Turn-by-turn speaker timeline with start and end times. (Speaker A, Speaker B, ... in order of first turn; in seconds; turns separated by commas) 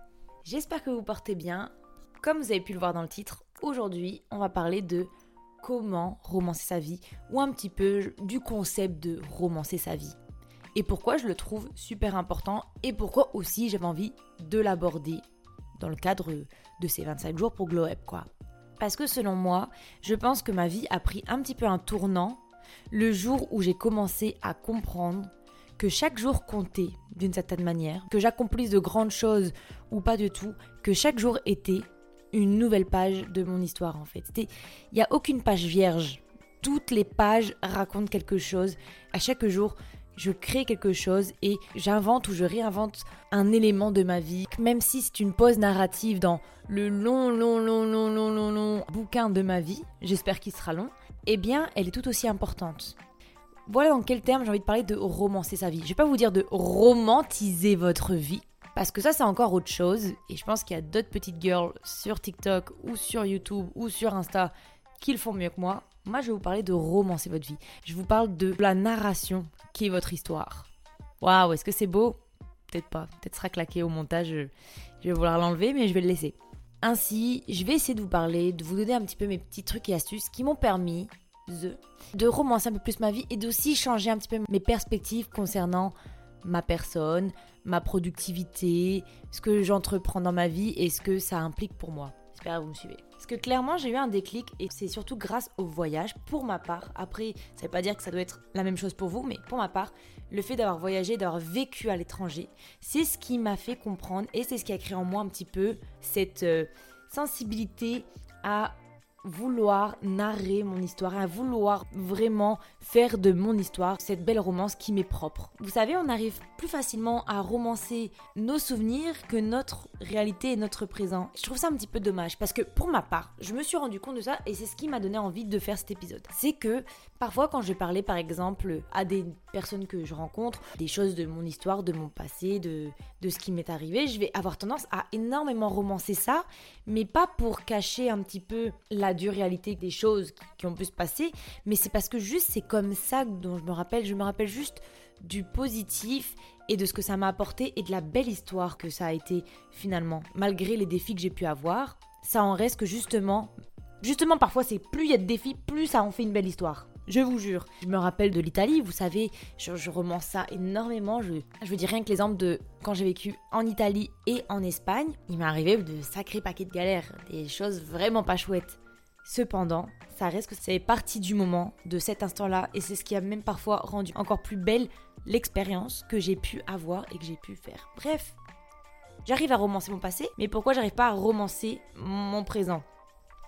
Speaker A: 0.4-5.1, Speaker A: 5.6-10.2, Speaker A: 10.7-15.2, Speaker A: 15.8-53.0, Speaker A: 53.7-70.7, Speaker A: 71.2-178.4, Speaker A: 179.2-182.8